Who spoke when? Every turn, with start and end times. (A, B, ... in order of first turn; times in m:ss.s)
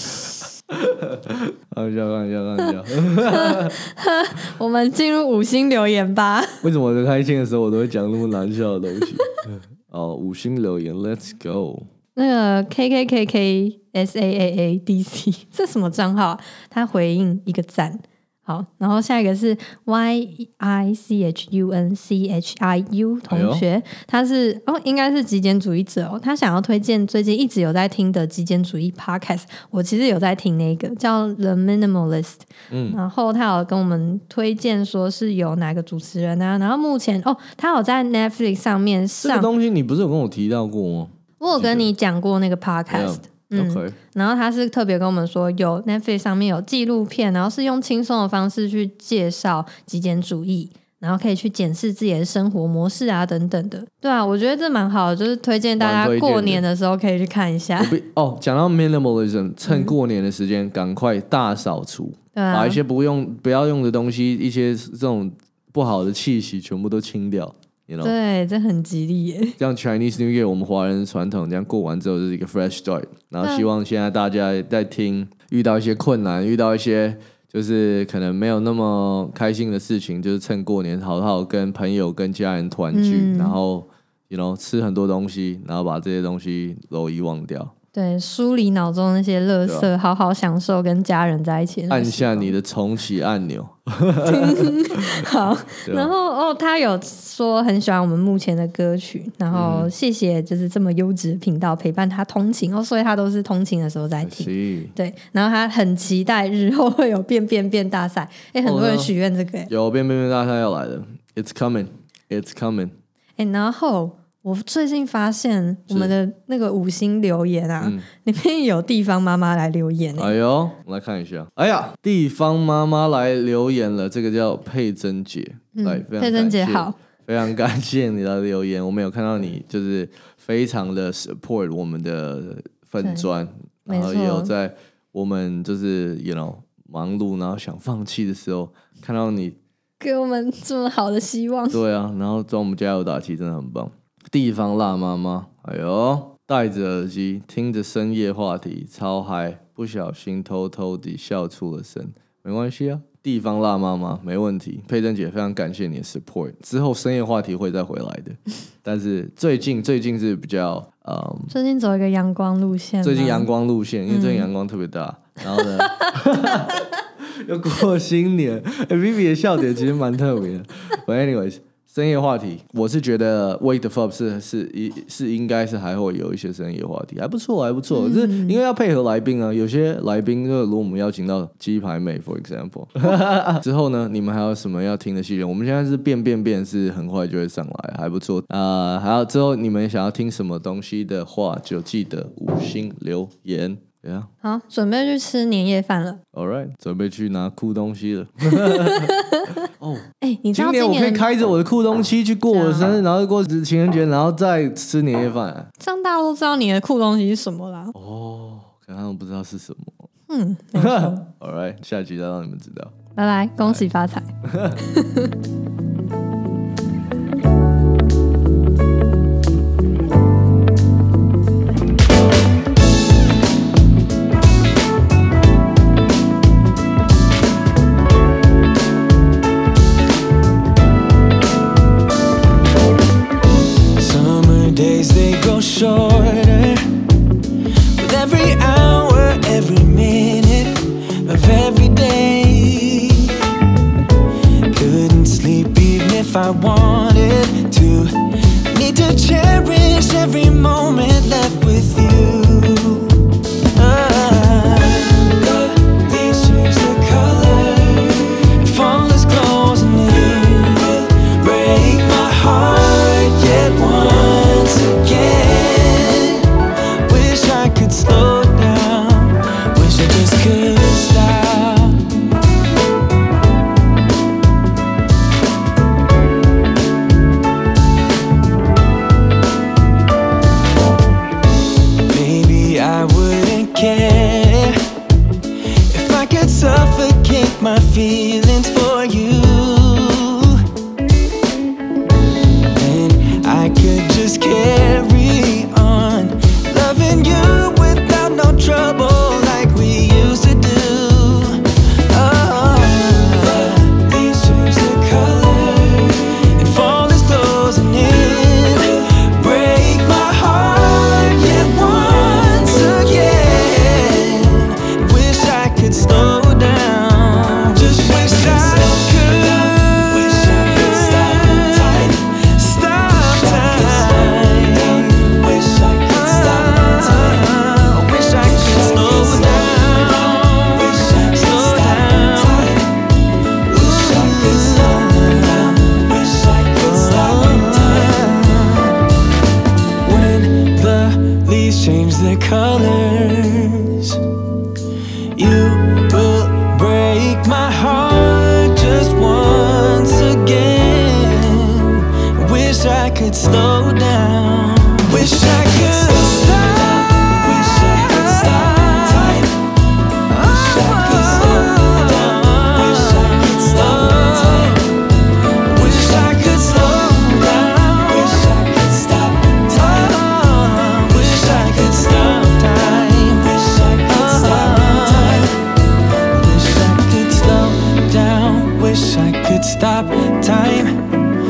0:00.2-0:03.8 A
0:03.2-0:06.6 B
0:06.6-0:11.9 A
0:12.1-0:39.5 B
0:23.3-0:23.6 A
0:32.7-0:33.0 A
0:39.2-0:41.9 A
0:41.4-0:58.0 B
0:42.9-0:44.0 A
0:55.8-0:56.6 A
0:57.8-1:08.1 A
0:59.6-1:00.0 B
1:02.3-1:02.8 B
1:08.0-1:09.6 B
1:09.6-1:27.7 A
1:13.4-1:13.7 B
1:22.9-1:23.6 B
1:27.9-1:32.6 B
1:29.6-1:29.9 A
1:31.9-1:35.3 A
1:34.2-1:49.7 B
1:35.8-1:36.1 A
1:39.5-1:39.9 A
1:44.2-1:44.9 A
1:48.6-1:49.1 A
1:49.7-1:52.9 A
1:53.4-2:00.3 B
1:55.9-1:56.1 A
1:57.8-1:58.1 A
2:00.2-2:19.6 A
2:05.7-2:06.9 B
2:13.0-2:13.3 B
2:13.9-2:14.5 B
2:20.0-2:21.8 B
2:21.7-2:41.5 A
2:41.5-2:43.5 B
2:43.0-2:46.9 A
2:44.1-2:44.5 B
2:47.4-3:14.3 A
2:57.9-2:58.6 B
3:14.4-3:16.2 B
3:16.3-3:25.7 A
3:18.5-3:19.6 B
3:20.2-3:21.3 B
3:22.5-3:23.0 B
3:25.8-3:27.9 B
3:27.9-3:30.1 A
3:30.3-3:31.2 B
3:30.8-3:32.9 A
3:33.2-3:34.3 B
3:34.4-3:34.8 A
3:34.8-3:35.3 B
3:54.0-3:57.0 C
3:58.0-4:03.4 C
4:04.7-4:13.2 C
4:13.7-4:32.1 C
4:42.1-4:44.8 C
4:45.9-4:50.6 C
4:52.7-5:33.0 C
5:33.6-5:39.0 C
5:40.0-5:44.2 C
5:45.3-5:59.6 C
6:00.3-6:15.6 C
6:16.3-6:21.0 C